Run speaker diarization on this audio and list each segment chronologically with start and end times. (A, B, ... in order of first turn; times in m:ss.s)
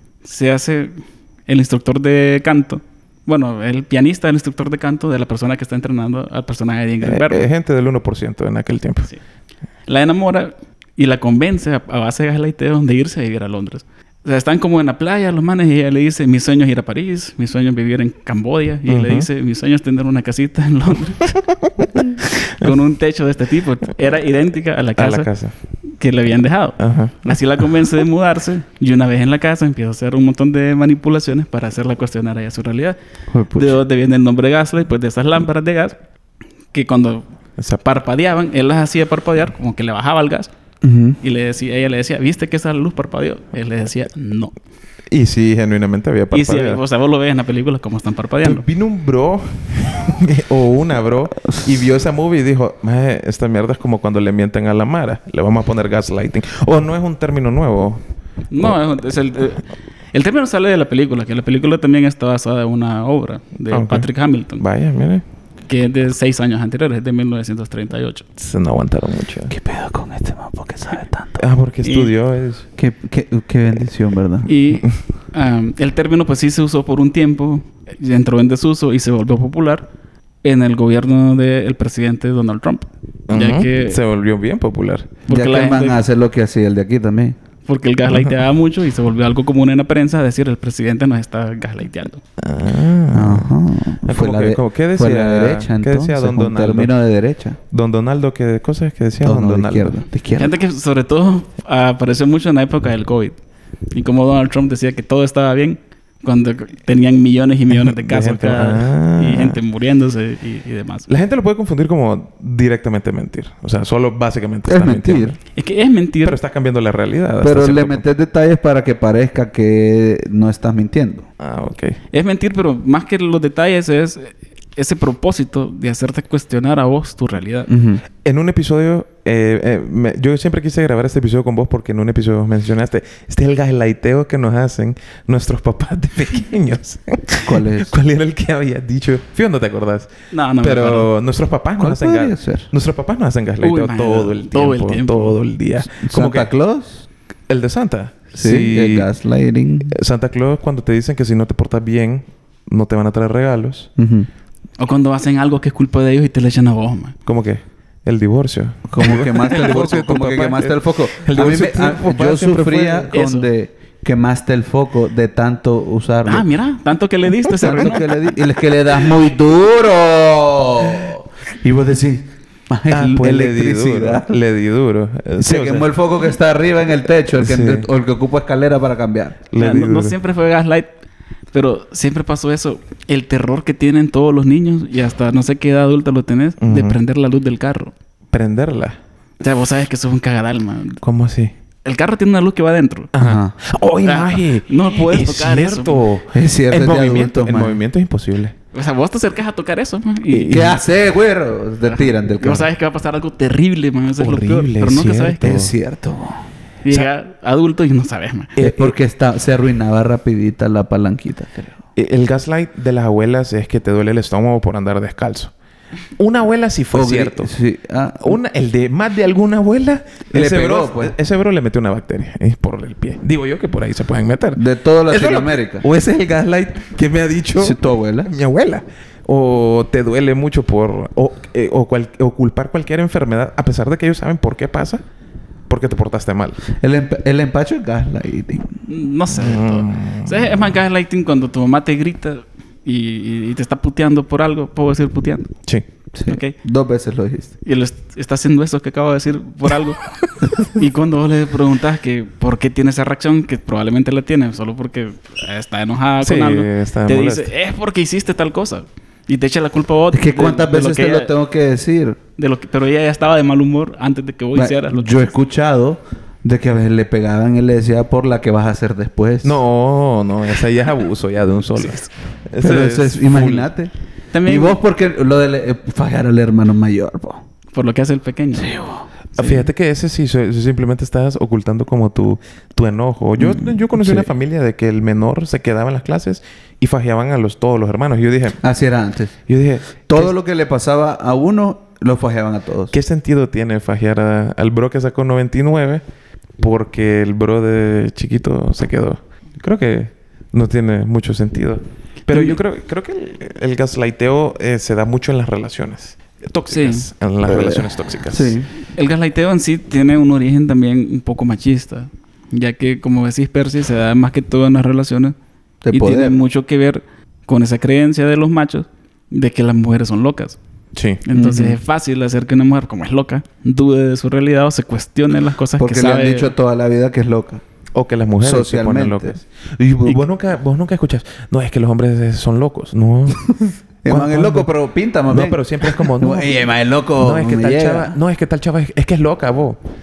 0:00.2-0:07.5 A
0:07.0-0:09.1 B
0:09.9-0:21.4 A
0:18.9-0:19.3 B
0:21.6-0:22.0 B
0:22.6-0:25.3 A
0:25.0-0:25.5 B
0:25.9-0:33.0 A
0:26.8-0:27.4 B
0:33.3-0:33.8 C
0:33.5-0:35.9 A
0:36.7-0:37.3 A
0:37.6-0:37.8 B
0:37.8-0:40.5 A
0:40.8-0:41.2 C
0:41.2-0:44.5 A
0:45.1-0:46.8 B
0:46.3-0:48.6 A
0:48.4-0:58.0 B
0:58.5-1:04.6 A
1:03.7-1:05.2 B
1:05.7-1:08.2 A
1:08.4-1:09.5 B
1:09.5-1:11.4 C
1:11.4-1:12.7 B
1:11.8-1:12.1 A
1:12.8-1:14.5 C
1:14.4-1:19.9 A
1:20.4-1:24.0 A
1:23.3-1:25.2 B
1:25.3-1:26.0 A
1:25.3-1:27.4 C
1:27.7-1:32.2 A
1:28.1-1:28.4 B
1:32.4-1:33.5 B
1:33.1-1:37.6 C
1:34.0-1:36.9 B
1:37.7-1:40.0 B
1:39.2-1:40.5 C
1:40.4-1:43.4 A
1:43.9-1:51.1 A
1:47.7-1:49.6 B
1:51.1-1:55.4 B
1:54.7-1:55.4 C
1:55.6-1:56.4 A
1:56.2-1:58.0 B
1:57.4-2:01.3 C
2:01.4-2:02.0 B
2:02.1-2:07.7 A
2:07.7-2:08.0 C
2:08.2-2:26.5 B
2:17.4-2:18.0 C
2:20.3-2:21.1 A
2:21.8-2:22.7 C
2:23.6-2:25.4 A
2:26.0-2:27.1 C
2:27.5-2:29.1 B
2:28.4-2:29.9 C
2:29.8-2:33.9 B
2:34.0-2:34.3 C
2:34.8-2:37.2 A
2:37.2-2:43.1 B
2:38.9-2:46.5 C
2:43.1-2:43.5 A
2:46.2-2:48.2 A
2:47.6-2:54.4 C
2:52.9-2:55.9 B
2:55.4-2:59.4 C
2:57.3-2:57.9 B
2:59.5-3:00.2 B
2:59.6-3:00.9 A
3:01.5-3:07.9 A
3:06.6-3:07.0 B
3:08.3-3:09.0 B
3:09.4-3:11.0 A
3:11.0-3:11.5 B
3:11.8-3:13.1 A
3:13.1-3:18.6 B
3:13.2-3:13.6 C
3:14.0-3:16.0 A
3:16.3-3:17.8 C
3:18.7-3:20.8 A
3:20.3-3:20.8 B
3:20.5-3:22.7 C
3:21.8-3:25.4 A
3:24.2-3:25.7 B
3:25.4-3:26.4 C
3:26.8-3:28.5 A
3:28.6-3:29.0 B
3:28.6-3:31.8 C
3:32.0-3:35.5 B
3:36.2-3:37.5 B
3:36.9-3:38.4 C
3:38.2-3:55.0 B
3:40.3-3:41.2 C
3:44.6-3:45.9 C
3:47.6-3:48.3 C
3:55.7-3:56.6 B
3:56.8-3:58.9 C
3:58.9-4:05.6 A
3:59.3-4:00.8 B
4:06.1-4:07.5 C
4:06.3-4:06.6 A
4:07.6-4:10.0 A
4:10.6-4:21.3 A
4:16.2-4:17.5 B
4:20.1-4:22.2 C
4:22.4-4:25.2 A
4:24.5-4:29.6 C
4:29.4-4:33.7 B
4:31.8-4:32.1 A
4:32.6-4:33.9 C
4:34.3-4:34.8 A
4:34.4-4:37.4 C
4:37.7-4:39.6 A
4:38.6-4:39.0 C
4:39.4-4:48.6 B
4:43.4-4:44.3 C
4:48.6-4:49.4 C
4:49.5-4:50.3 B
4:50.1-4:52.9 C
4:52.9-4:56.0 B
4:56.6-5:08.6 B
5:02.3-5:02.6 A
5:06.7-5:07.1 A
5:07.4-5:08.7 C
5:08.9-5:15.3 A
5:15.8-5:16.4 C
5:15.9-5:20.6 A
5:20.9-5:21.2 B
5:21.2-5:26.5 A
5:21.3-5:21.8 C
5:25.8-5:27.6 C
5:27.9-5:34.7 B
5:28.4-5:29.4 C
5:33.5-5:38.2 C
5:35.3-5:39.8 B